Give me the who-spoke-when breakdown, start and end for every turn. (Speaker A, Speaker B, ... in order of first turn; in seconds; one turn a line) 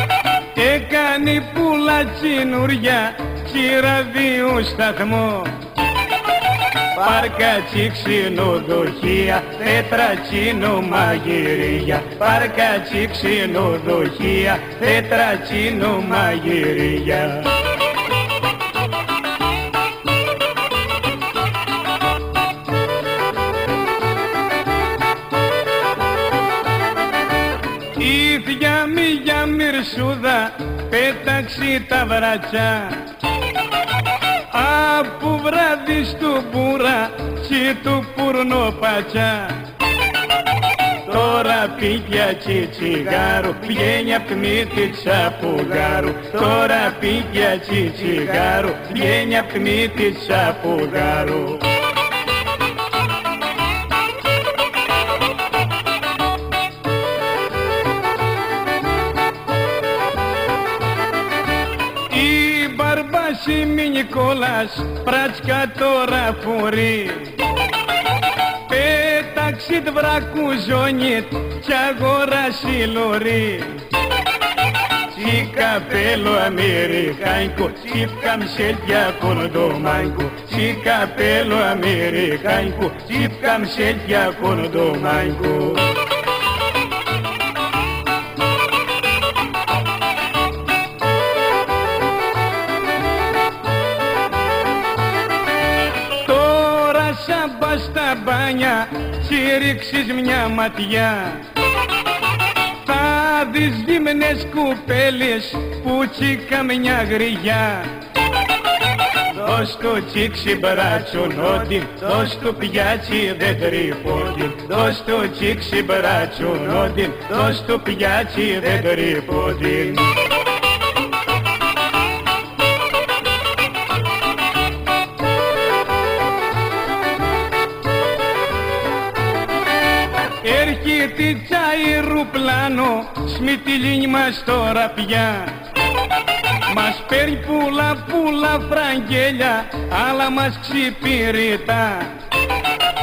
Speaker A: 0.5-5.7
Speaker A: 6.9-17.7
Speaker A: 27.9-33.1
Speaker A: 34.5-39.7
Speaker A: 41.0-51.8
Speaker A: 62.1-67.5
Speaker A: 68.7-73.9
Speaker A: 75.0-86.0
Speaker A: 96.1-101.5
Speaker A: 102.8-108.0
Speaker A: 109.3-120.3
Speaker A: 130.4-135.7
Speaker A: 136.7-142.2